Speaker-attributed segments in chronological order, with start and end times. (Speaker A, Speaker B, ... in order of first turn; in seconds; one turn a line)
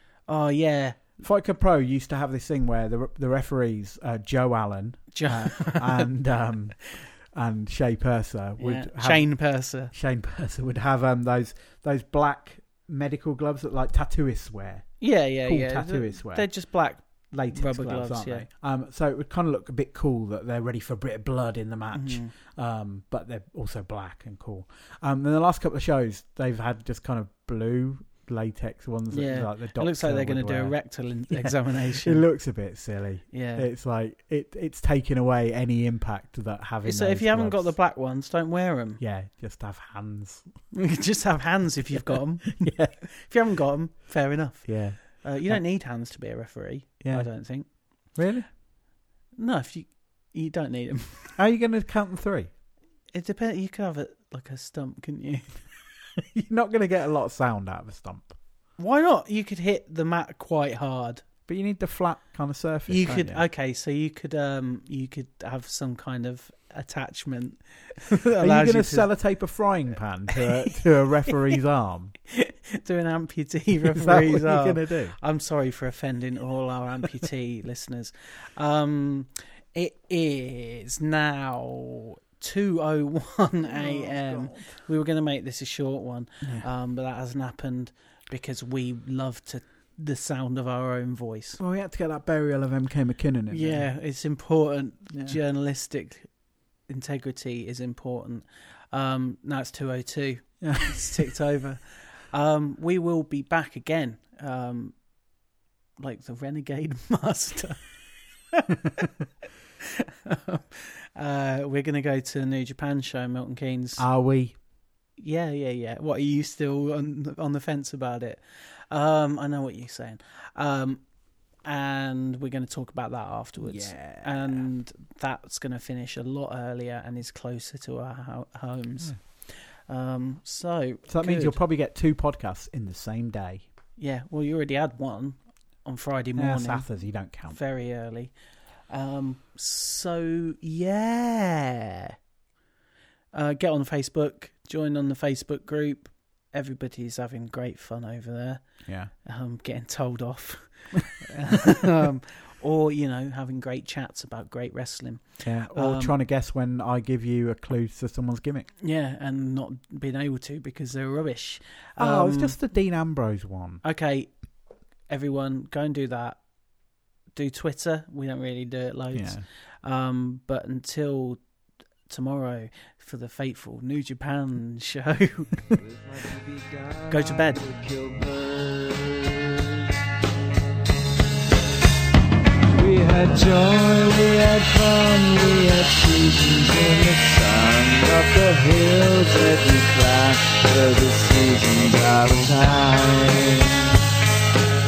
Speaker A: 0.3-1.1
Speaker B: 1.2-9.3
Speaker A: 5.1-6.1
Speaker A: 8.6-9.9
Speaker B: 9.9-16.5
Speaker A: 15.0-18.5
Speaker B: 17.3-30.8
Speaker A: 21.9-22.3
Speaker A: 29.1-32.2
Speaker B: 31.3-37.8
Speaker A: 33.3-33.6
Speaker A: 36.8-39.0
Speaker B: 39.0-40.5
Speaker A: 40.7-47.7
Speaker B: 41.9-43.0
Speaker B: 44.6-45.6
Speaker B: 47.0-47.3
Speaker B: 48.1-48.5
Speaker A: 49.4-51.4
Speaker B: 51.4-52.5
Speaker A: 53.1-55.6
Speaker B: 56.2-58.4
Speaker A: 58.8-61.2
Speaker B: 61.5-63.4
Speaker A: 62.9-69.1
Speaker B: 68.4-72.2
Speaker A: 70.3-70.7
Speaker A: 72.3-91.6
Speaker B: 73.9-75.2
Speaker B: 83.6-84.7
Speaker B: 86.4-86.7
Speaker B: 91.6-93.9
Speaker A: 93.5-96.3
Speaker B: 95.1-95.4
Speaker A: 96.9-105.0
Speaker B: 100.6-101.3
Speaker A: 106.0-107.9
Speaker A: 108.5-109.1
Speaker A: 109.8-114.0
Speaker B: 114.0-114.6
Speaker A: 115.2-121.0
Speaker A: 121.6-131.6
Speaker B: 123.6-124.7
Speaker B: 131.1-133.7
Speaker A: 134.0-136.9
Speaker B: 136.4-137.6
Speaker A: 137.5-138.3
Speaker A: 138.9-142.2
Speaker A: 143.3-148.7
Speaker B: 148.8-149.1
Speaker A: 149.2-156.2
Speaker B: 155.4-158.7
Speaker A: 158.8-162.5
Speaker B: 162.0-163.8
Speaker A: 163.8-164.3
Speaker A: 165.1-166.4
Speaker A: 167.3-171.4
Speaker B: 169.1-169.4
Speaker A: 172.1-175.8
Speaker C: 175.8-179.8
Speaker A: 177.1-177.6
Speaker C: 182.7-194.0